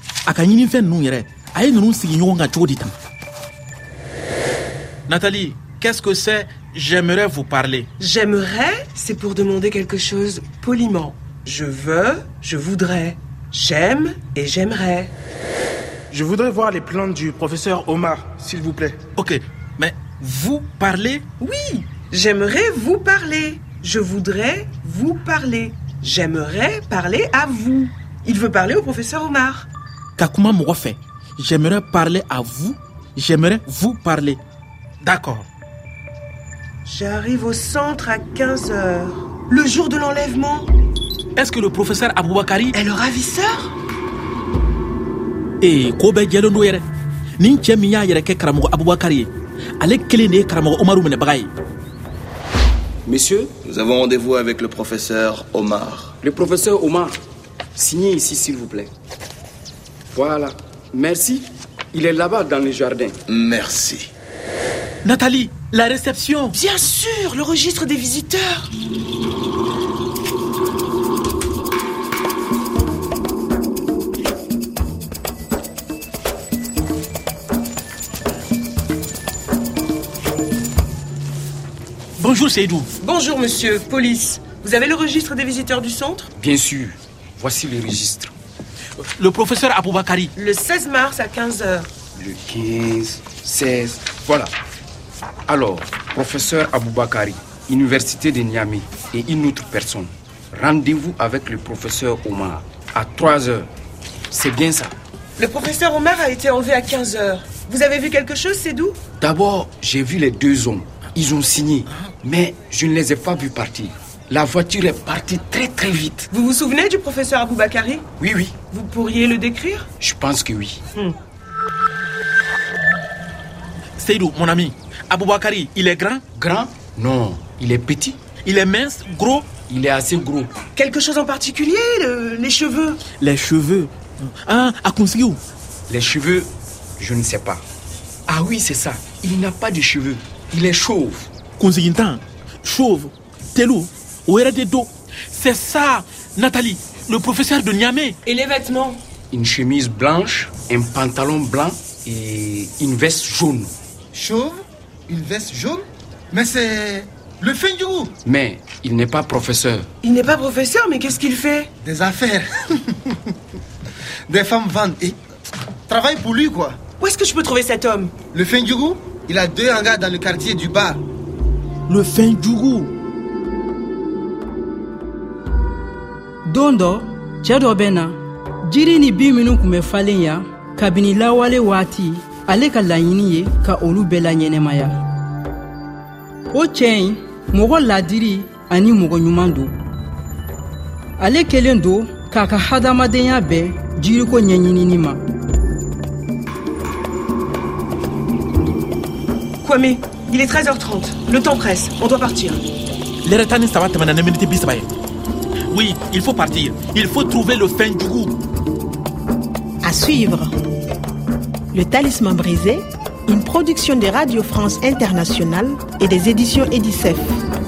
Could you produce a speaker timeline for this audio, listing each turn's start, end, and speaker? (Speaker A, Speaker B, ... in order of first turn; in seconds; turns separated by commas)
Speaker A: 0.3-2.9, Speaker A: 5.1-7.9, Speaker B: 8.0-15.1, Speaker C: 16.1-19.0, Speaker A: 19.2-21.3, Speaker B: 21.4-29.7, Speaker A: 30.2-34.4, Speaker A: 35.0-35.5, Speaker B: 36.9-40.7, Speaker A: 41.4-42.8, Speaker B: 42.7-43.8, Speaker A: 45.6-46.8, Speaker A: 47.4-51.5, Speaker D: 53.1-53.5, Speaker E: 53.6-56.1, Speaker D: 56.2-57.2, Speaker D: 57.8-58.9, Speaker D: 60.1-63.1, Speaker E: 63.3-64.1, Speaker A: 65.0-66.5, Speaker B: 66.5-68.7, Speaker A: 82.2-82.9, Speaker B: 83.0-86.3, Speaker D: 86.3-88.3, Speaker A: 89.2-90.3, Speaker B: 90.4-91.9, Speaker D: 92.2-94.5, Speaker D: 95.5-103.7, Speaker D: 104.3-105.0, Speaker B: 105.4-109.0, Speaker D: 109.2-116.3, Speaker B: 116.3-118.1, Speaker D: 118.2-118.6, Speaker B: 118.7-119.9, Speaker D: 120.0-120.8, Speaker A: 124.0-126.2, Speaker D: 126.3-128.2, Speaker A: 128.4-129.5, Speaker D: 129.7-130.6, Speaker B: 130.7-133.0, Speaker A: 133.1-135.4, Speaker D: 135.9-137.6, Speaker D: 138.3-141.3, Speaker A: 141.6-148.2, Speaker B: 148.2-149.0, Speaker D: 149.3-153.7, Speaker F: 154.1-158.1, Speaker D: 158.2-159.9, Speaker B: 160.0-161.7, Speaker F: 161.8-162.8, Speaker F: 164.3-165.2, Speaker F: 165.9-166.8, Speaker B: 167.0-168.2, Speaker F: 168.3-171.0, Speaker A: 171.9-172.9, Speaker G: 176.4-185.0, Speaker G: 186.5-189.7, Speaker G: 191.2-195.2, Speaker B: 199.6-202.6, Speaker A: 203.2-204.9, Speaker A: 205.7-208.3, Speaker H: 209.8-210.6, Speaker H: 211.7-217.4